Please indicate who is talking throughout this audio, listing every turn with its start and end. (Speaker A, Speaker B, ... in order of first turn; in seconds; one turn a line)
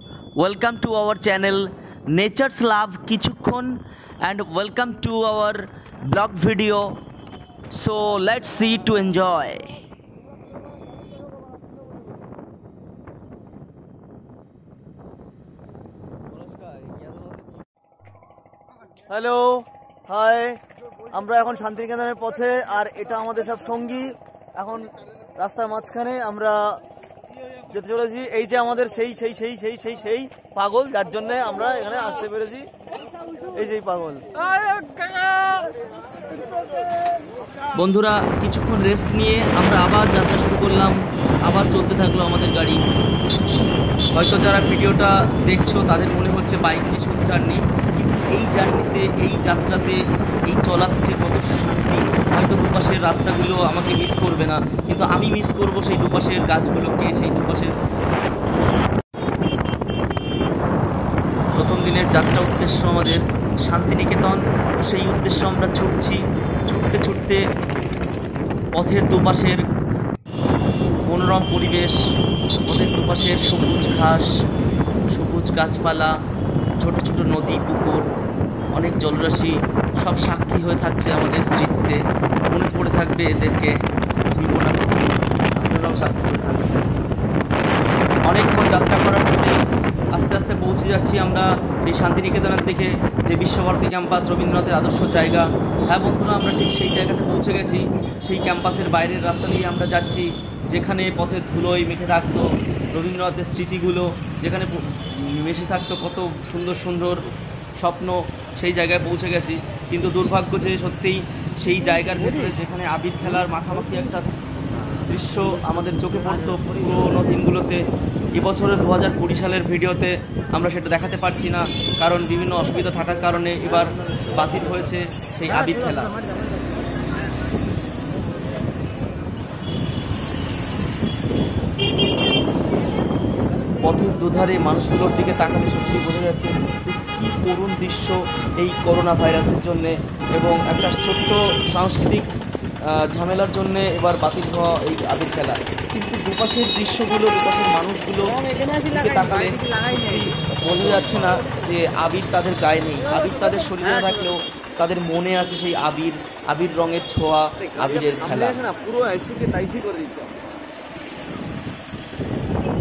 Speaker A: 0.4-6.9
Speaker A: 7.8-9.7
Speaker B: 16.6-17.3
Speaker B: 19.0-26.8
Speaker B: 27.7-32.7
Speaker B: 33.5-34.2
Speaker A: 37.8-42.8
Speaker A: 44.2-57.7
Speaker A: 61.5-66.2
Speaker A: 66.7-67.4
Speaker A: 68.8-69.6
Speaker A: 71.1-72.0
Speaker A: 72.7-74.3
Speaker A: 75.1-76.1
Speaker A: 76.8-78.0
Speaker A: 78.8-83.7
Speaker A: 84.3-85.1
Speaker B: 85.6-86.9
Speaker A: 85.8-86.1
Speaker A: 88.3-89.5
Speaker A: 90.1-107.2
Speaker A: 107.8-114.3
Speaker B: 112.1-112.5
Speaker A: 115.1-117.8
Speaker B: 115.3-117.3
Speaker A: 118.4-126.2
Speaker B: 123.6-125.0
Speaker A: 133.8-142.3
Speaker A: 143.1-158.6
Speaker B: 148.3-151.4
Speaker B: 153.1-154.3
Speaker B: 157.6-160.3